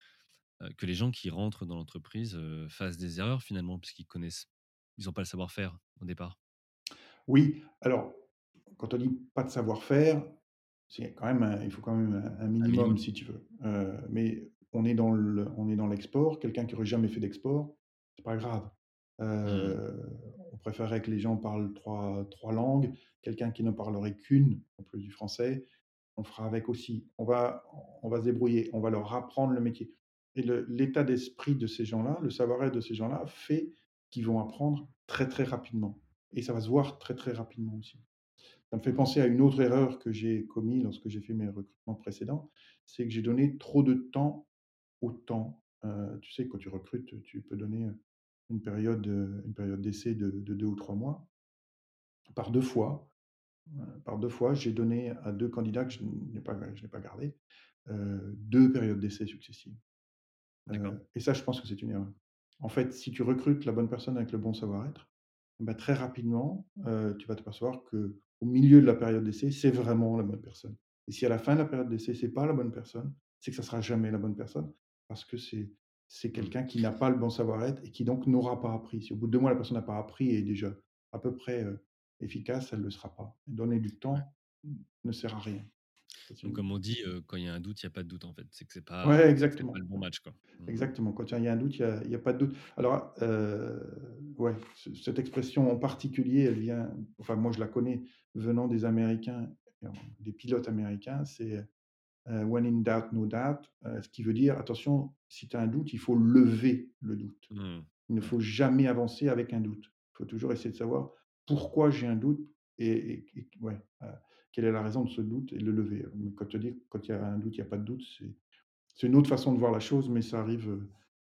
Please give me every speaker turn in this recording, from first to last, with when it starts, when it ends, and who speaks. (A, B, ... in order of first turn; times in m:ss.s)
0:00.6-0:06.4 A
0:07.3-0:10.4 B
0:10.9-0:25.6 B
0:12.6-0:13.0 A
0:19.5-0:19.8 A
0:26.2-0:38.0 B
0:38.7-0:44.5 B
0:45.0-0:48.0 B
0:48.5-0:51.3 B
0:52.3-0:53.1 B
0:53.7-0:59.8 B
1:00.7-1:01.0 A
1:00.7-1:25.7 B
1:26.3-1:26.6 B
1:26.4-1:30.9 A
1:29.0-1:29.8 B
1:30.7-1:41.7 B
1:42.3-1:47.5 B
1:47.5-1:48.3 A
1:48.1-1:58.4 B
1:59.0-2:00.9 B